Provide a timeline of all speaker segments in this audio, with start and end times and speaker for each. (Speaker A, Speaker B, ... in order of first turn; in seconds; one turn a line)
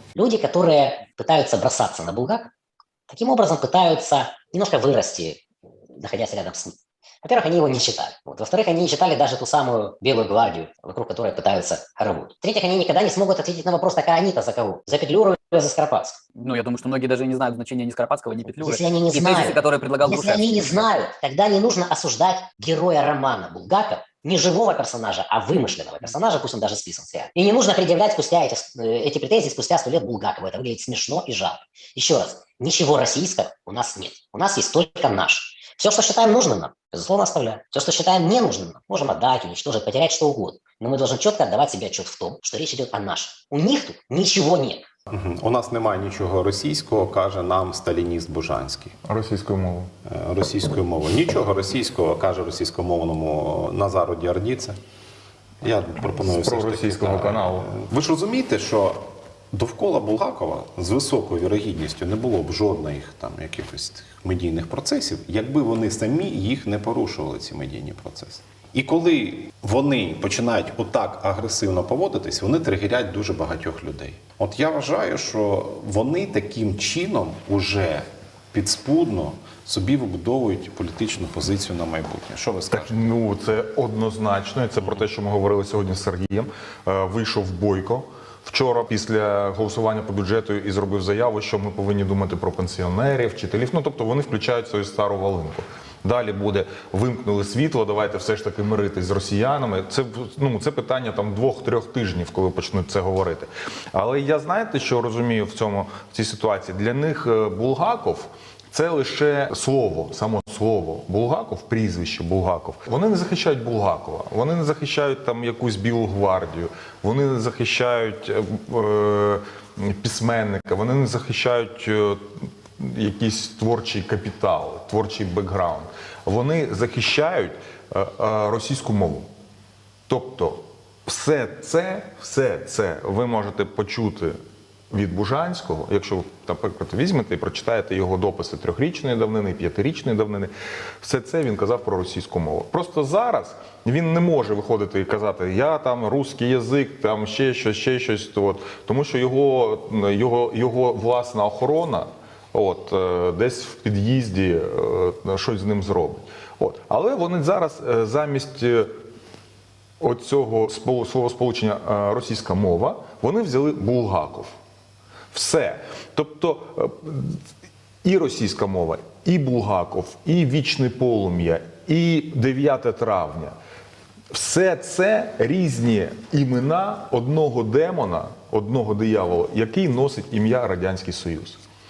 Speaker A: 0.2-2.5
Speaker A: 3.1-5.4
Speaker A: 6.0-16.2
Speaker B: 16.4-20.9
Speaker A: 18.6-44.9
Speaker C: 45.1-49.0
Speaker D: 49.0-49.9
Speaker C: 50.0-54.8
Speaker C: 55.6-59.0
Speaker D: 56.2-57.7
Speaker C: 59.5-83.1
Speaker D: 82.7-122.2
Speaker D: 122.8-129.3
Speaker D: 130.1-134.3
Speaker D: 134.9-140.5
Speaker D: 141.0-158.9
Speaker D: 160.0-164.5
Speaker D: 165.3-167.4
Speaker D: 168.0-173.5
Speaker D: 174.3-181.6